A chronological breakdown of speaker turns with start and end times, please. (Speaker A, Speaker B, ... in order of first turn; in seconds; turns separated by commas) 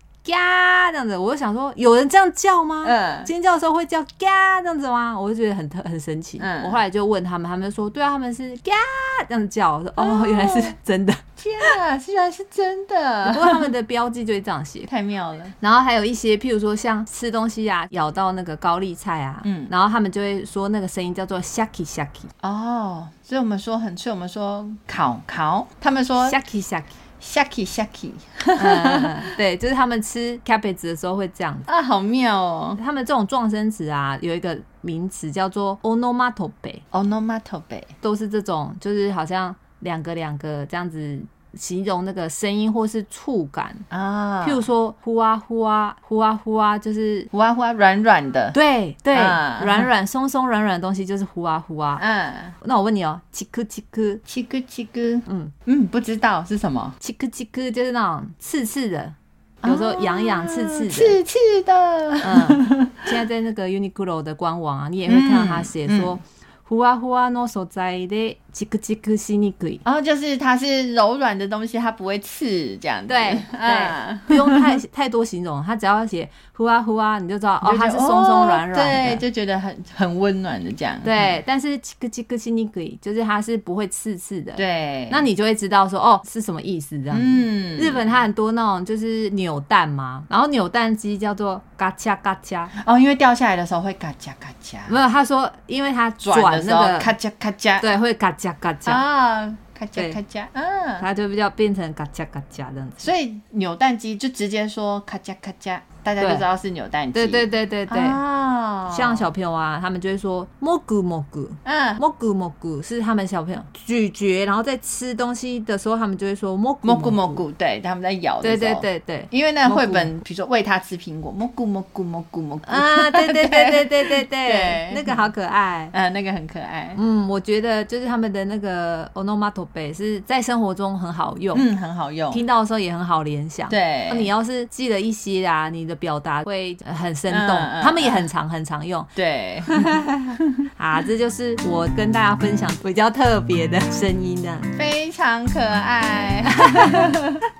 Speaker A: 0.2-11.7, Speaker B: 2.8-3.3, Speaker B: 6.4-6.8, Speaker B: 10.0-10.8, Speaker B: 11.4-13.7, Speaker A: 13.2-14.9, Speaker B: 14.9-15.5, Speaker A: 15.6-22.3, Speaker B: 19.4-19.7, Speaker B: 22.4-26.4, Speaker A: 26.2-26.9, Speaker B: 27.2-29.3, Speaker A: 28.6-31.7, Speaker B: 31.6-32.8, Speaker A: 32.8-36.8, Speaker B: 36.9-37.9, Speaker A: 38.0-43.9, Speaker B: 43.9-44.6, Speaker A: 44.4-47.3, Speaker B: 47.3-48.5, Speaker A: 48.5-52.0, Speaker B: 49.1-49.9, Speaker B: 52.0-52.5, Speaker A: 52.6-54.2, Speaker B: 54.2-57.0, Speaker A: 55.3-55.5, Speaker A: 57.0-61.2, Speaker B: 59.6-63.0, Speaker A: 62.2-69.8, Speaker B: 65.0-66.2, Speaker B: 69.8-74.7, Speaker A: 73.1-79.2, Speaker B: 77.6-81.4, Speaker A: 81.0-92.7, Speaker B: 84.5-85.2, Speaker B: 87.1-88.1, Speaker B: 92.8-95.0, Speaker A: 94.9-97.1, Speaker B: 96.2-97.8, Speaker A: 97.8-99.0, Speaker B: 98.8-101.0, Speaker A: 101.0-103.1, Speaker B: 103.0-109.3, Speaker A: 106.2-106.4, Speaker A: 107.1-108.2, Speaker A: 108.9-117.4, Speaker B: 111.6-112.0, Speaker B: 116.8-125.2, Speaker A: 118.4-120.1, Speaker A: 122.6-125.9, Speaker B: 125.9-127.0, Speaker A: 127.0-131.7, Speaker B: 131.5-132.4, Speaker A: 132.3-139.1, Speaker B: 133.7-134.3, Speaker B: 137.3-138.3, Speaker B: 139.1-140.7, Speaker A: 139.7-144.7, Speaker B: 144.7-147.4, Speaker A: 146.7-147.1